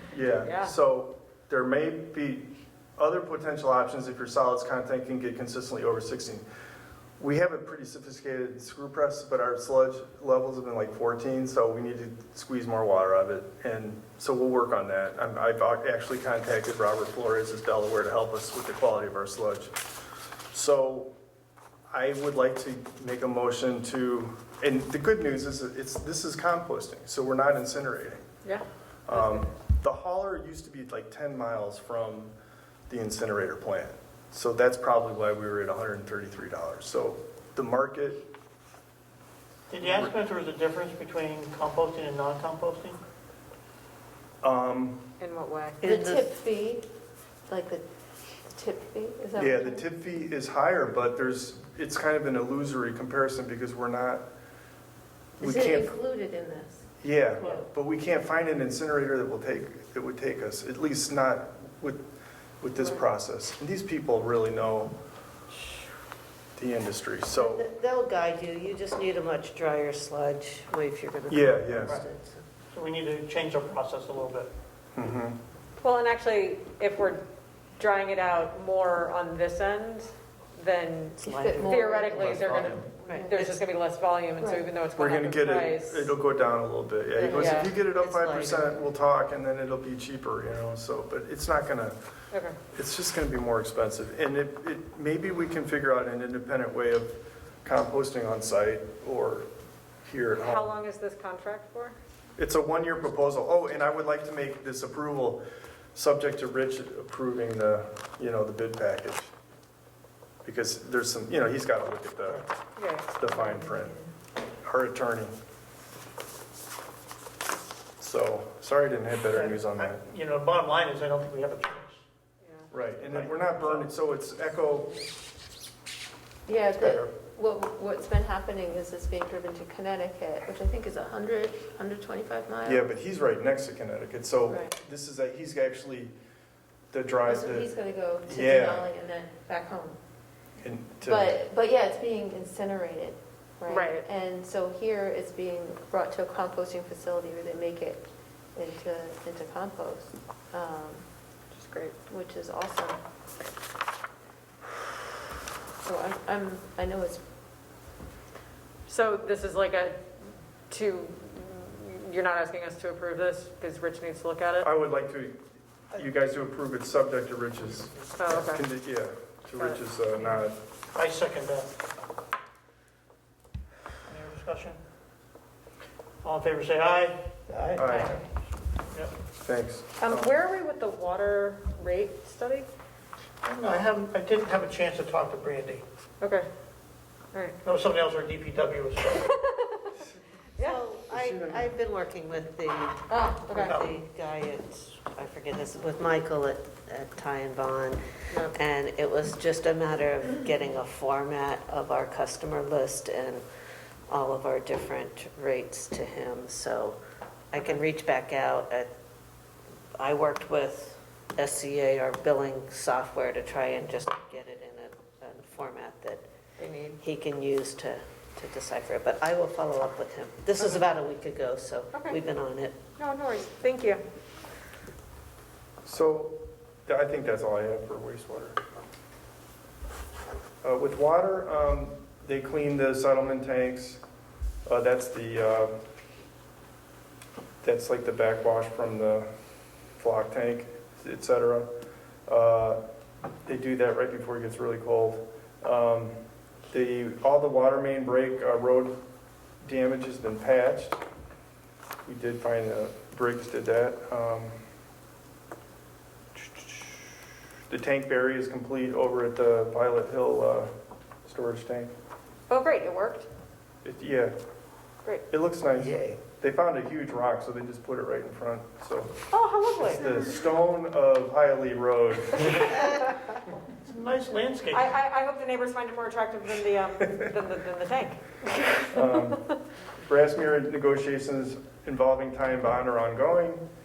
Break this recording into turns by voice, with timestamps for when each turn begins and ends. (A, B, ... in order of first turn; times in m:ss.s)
0:00.1-0:06.4 A
0:00.4-0:00.7 B
0:07.2-0:19.8 A
0:20.5-0:21.1 A
0:21.9-0:28.2 A
0:28.4-0:29.4 B
0:29.1-0:32.3 A
0:32.9-0:38.3 A
0:39.7-0:43.0 C
0:39.8-0:40.1 A
0:44.4-0:45.1 A
0:45.2-0:45.8 B
0:45.8-0:46.3 D
0:45.8-0:46.9 E
0:47.5-0:47.8 E
0:48.4-0:49.8 E
0:49.4-0:54.2 A
0:55.4-0:55.9 A
0:55.4-0:57.6 E
0:57.0-1:02.0 A
1:02.6-1:04.9 A
1:06.6-1:07.6 A
1:07.3-1:12.4 D
1:11.3-1:12.0 A
1:12.7-1:14.5 C
1:14.9-1:15.4 A
1:15.8-1:17.2 B
1:17.8-1:26.1 B
1:21.2-1:23.6 D
1:21.2-1:23.4 E
1:24.4-1:24.6 E
1:25.0-1:32.0 A
1:27.2-1:27.7 B
1:27.3-1:28.8 D
1:32.3-1:32.6 B
1:32.7-1:39.5 A
1:40.0-1:40.7 A
1:40.4-1:42.0 B
1:42.4-1:45.4 A
1:45.9-1:49.3 A
1:50.4-1:52.5 A
1:52.8-1:53.1 B
1:53.1-1:54.0 A
1:54.6-1:55.3 A
1:58.0-2:00.0 A
1:59.3-2:02.0 C
2:02.7-2:05.0 A
2:03.0-2:03.9 C
2:06.4-2:12.9 E
2:06.7-2:07.1 A
2:12.6-2:16.1 A
2:16.9-2:17.7 A
2:17.2-2:20.0 E
2:18.2-2:18.9 A
2:20.6-2:21.4 A
2:21.0-2:31.0 E
2:23.7-2:24.0 B
2:31.5-2:32.0 B
2:32.0-2:33.0 E
2:35.8-2:37.2 E
2:38.9-2:40.0 B
2:40.7-2:44.7 B
2:44.6-2:50.6 A
2:48.2-2:48.6 B
2:49.5-2:50.2 B
2:50.9-2:51.7 C
2:54.1-2:54.8 C
2:56.2-2:58.2 C
2:57.8-2:58.2 A
2:59.4-3:00.3 A
3:00.0-3:02.7 B
3:03.4-3:05.8 C
3:06.2-3:06.5 B
3:07.6-3:09.3 C
3:09.2-3:09.9 B
3:10.6-3:23.4 D
3:13.1-3:13.7 B
3:13.5-3:13.9 C
3:24.1-3:27.0 D
3:27.5-3:28.9 D
3:30.0-3:36.2 D
3:36.6-3:37.0 B
3:37.0-3:42.8 D
3:41.9-3:42.2 B
3:43.0-3:44.0 B
3:45.8-3:48.6 A
3:50.6-3:54.0 A
3:54.6-3:55.7 A
3:57.6-3:59.3 A
4:00.0-4:01.7 A
4:02.3-4:02.8 A
4:03.4-4:06.2 A
4:06.7-4:09.0 A
4:09.6-4:11.0 A
4:12.0-4:14.6 A
4:16.3-4:17.1 A
4:17.7-4:20.7 A
4:21.2-4:21.9 A
4:22.5-4:23.3 B
4:23.8-4:24.4 A
4:25.3-4:29.2 A
4:29.3-4:30.2 B
4:29.8-4:32.9 A
4:33.8-4:34.9 C
4:34.7-4:39.2 B
4:38.8-4:39.5 A
4:40.1-4:43.6 A